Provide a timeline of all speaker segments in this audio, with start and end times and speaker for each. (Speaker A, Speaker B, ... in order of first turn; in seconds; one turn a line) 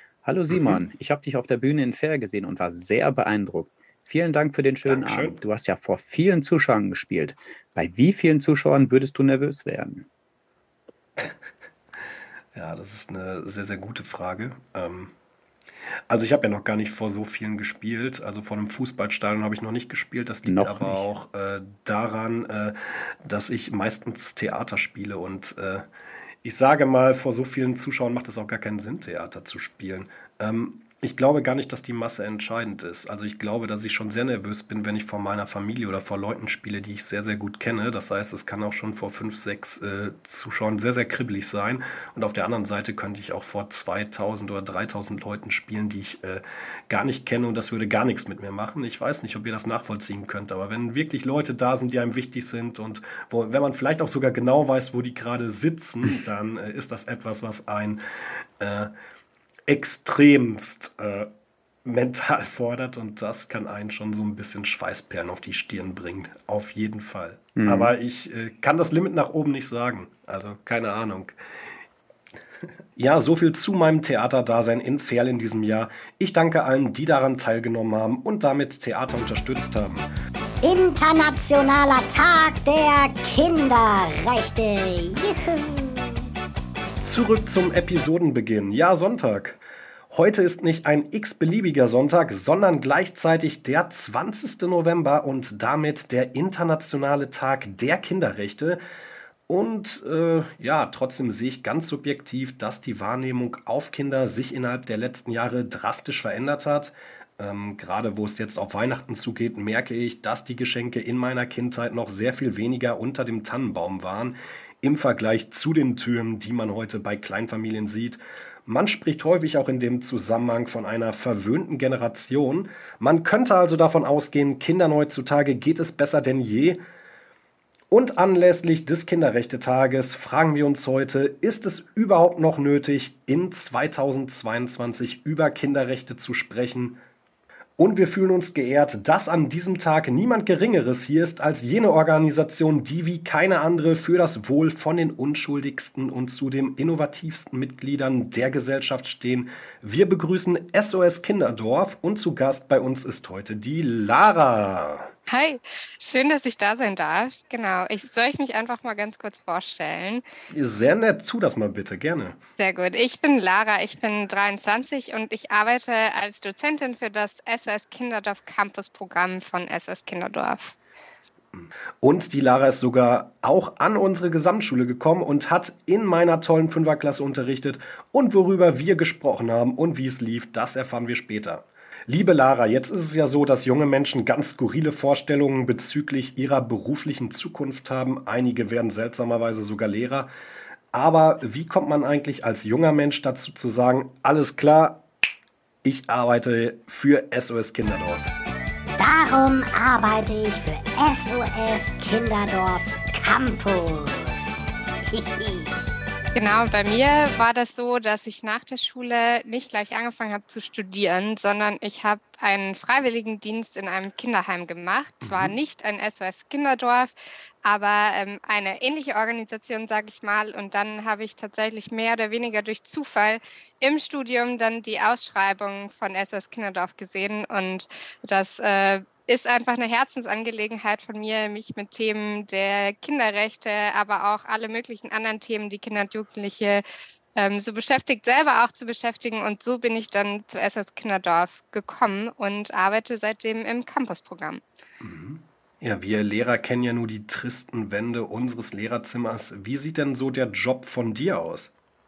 Speaker A: 0.2-10.1
Speaker B: 0.5-0.8
Speaker B: 4.8-5.4
Speaker B: 12.6-15.1
Speaker B: 16.1-25.9
Speaker A: 20.4-21.1
Speaker B: 26.4-58.0
Speaker B: 58.6-58.9
Speaker B: 59.7-61.3
Speaker B: 61.8-71.4
Speaker A: 67.5-67.9
Speaker B: 73.0-80.1
Speaker C: 80.6-86.3
Speaker B: 87.0-89.6
Speaker B: 90.1-98.8
Speaker B: 99.5-126.8
Speaker B: 127.9-137.0
Speaker B: 137.8-155.1
Speaker D: 155.3-160.2
Speaker B: 160.5-162.4
Speaker D: 162.6-170.8
Speaker B: 171.5-190.3
Speaker B: 190.9-195.0
Speaker B: 195.8-198.3
Speaker C: 199.0-204.5
Speaker C: 205.1-205.8
Speaker D: 206.3-236.8
Speaker B: 215.2-215.6
Speaker D: 237.4-244.6
Speaker B: 245.0-251.7